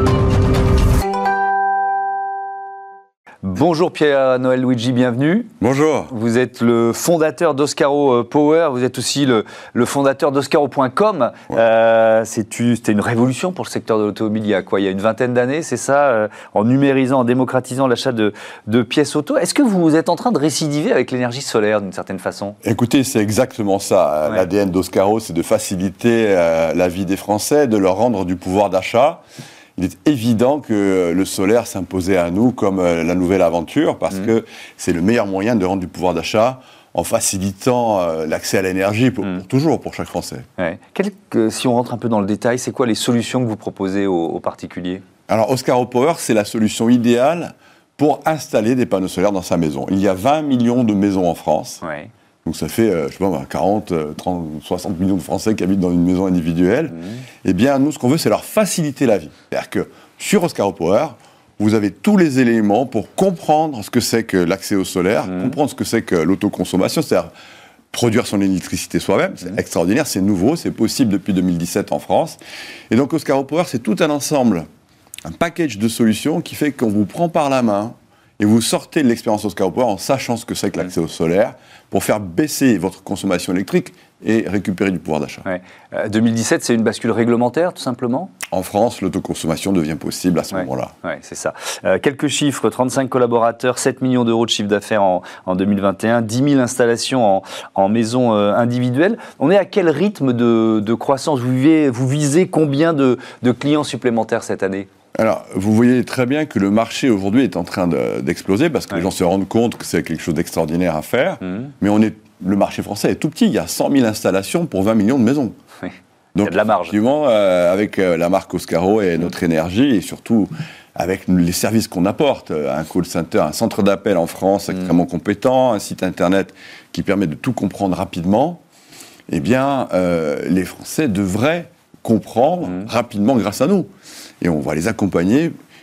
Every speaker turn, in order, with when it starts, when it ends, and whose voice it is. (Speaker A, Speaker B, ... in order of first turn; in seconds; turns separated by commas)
Speaker A: 3.4-5.5, Speaker B: 5.6-6.1, Speaker A: 6.1-22.6, Speaker B: 22.6-29.2, Speaker B: 29.8-40.5, Speaker A: 40.6-45.0, Speaker B: 45.3-51.8, Speaker A: 51.8-52.1, Speaker B: 52.5-67.3, Speaker B: 67.9-72.4, Speaker B: 72.9-74.7, Speaker B: 75.2-85.5, Speaker A: 85.5-88.3, Speaker B: 88.5-90.9, Speaker A: 90.5-104.9, Speaker B: 105.2-115.6, Speaker A: 115.8-117.0, Speaker B: 116.3-128.6, Speaker B: 129.3-135.6